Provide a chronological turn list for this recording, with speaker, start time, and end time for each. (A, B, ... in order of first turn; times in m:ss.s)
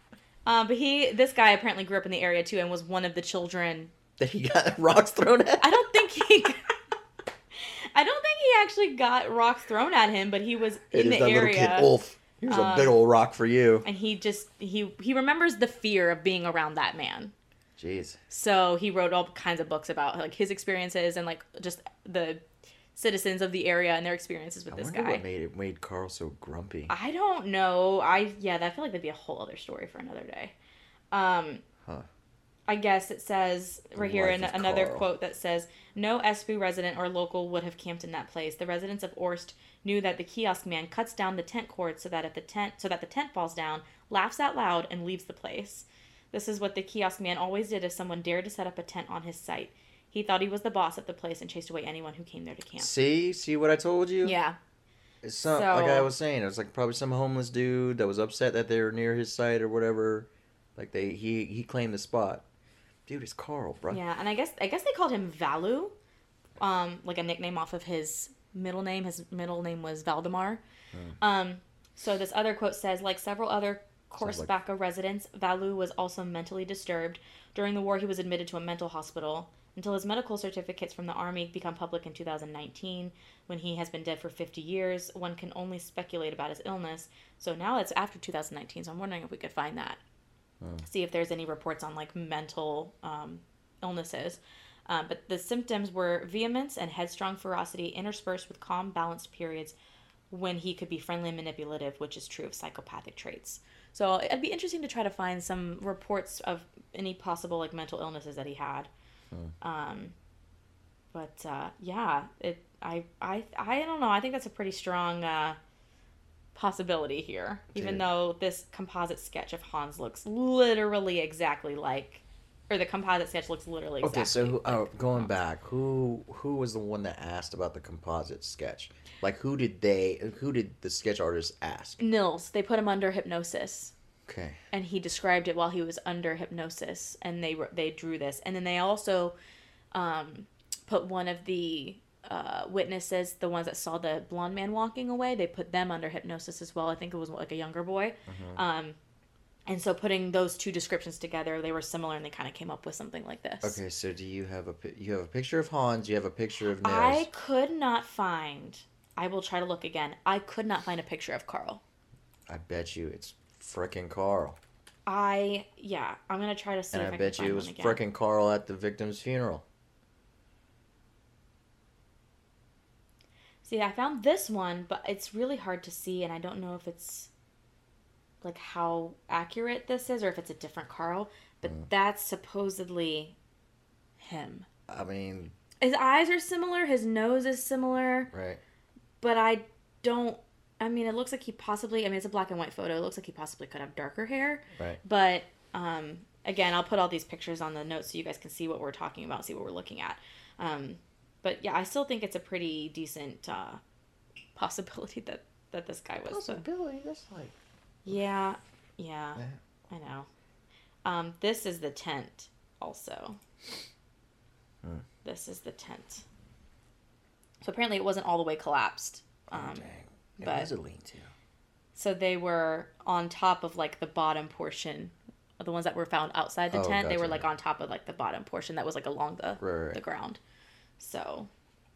0:00.5-0:03.9 A
0:04.2-0:05.8 B
0:05.6-0:06.7 A
0:07.6-0:11.9 A
0:10.9-0:13.9 B
0:12.5-0:13.0 A
0:13.8-0:17.3 A
0:17.8-0:18.2 B
0:18.3-0:22.4 A
0:23.0-0:25.2 A
0:24.7-0:26.9 B
0:26.9-0:30.6 A
0:31.1-0:31.6 A
0:32.7-0:52.9 A
0:34.0-0:35.1 B
0:52.8-0:54.4 B
0:54.2-0:54.6 A
0:55.2-1:02.4 B
0:55.5-0:56.1 A
1:03.1-1:04.0 B
1:03.9-1:05.9 A
1:06.6-1:10.6 A
1:11.2-1:30.0 A
1:14.2-1:14.5 B
1:30.8-1:39.8 A
1:40.3-1:48.9 A
1:49.6-1:50.1 A
1:51.1-1:55.6 A
1:56.6-2:05.3 A
1:57.8-1:58.0 B
2:04.0-2:12.0 B
2:12.0-2:13.9 A
2:14.3-2:14.6 B
2:14.7-2:19.4 A
2:19.9-2:29.0 A
2:28.3-2:28.6 B
2:29.7-2:33.8 A
2:33.6-2:37.3 B
2:36.8-2:41.8 A
2:42.5-2:44.6 B
2:45.1-2:48.0 A
2:46.9-2:49.6 B
2:53.6-2:57.3 A
2:58.4-3:03.4 A
3:04.2-3:04.7 A
3:04.9-3:05.5 B
3:05.8-3:08.3 A
3:08.3-3:08.6 B
3:09.2-3:23.8 A
3:24.6-3:26.6 A
3:26.2-3:27.6 B
3:28.0-3:30.3 A
3:31.0-3:33.4 A
3:35.2-3:36.2 A
3:37.6-3:39.9 A
3:39.5-3:41.3 B
3:40.4-3:40.7 A
3:42.0-3:50.4 A
3:46.7-3:47.5 B
3:49.6-3:50.0 B
3:51.0-3:51.5 A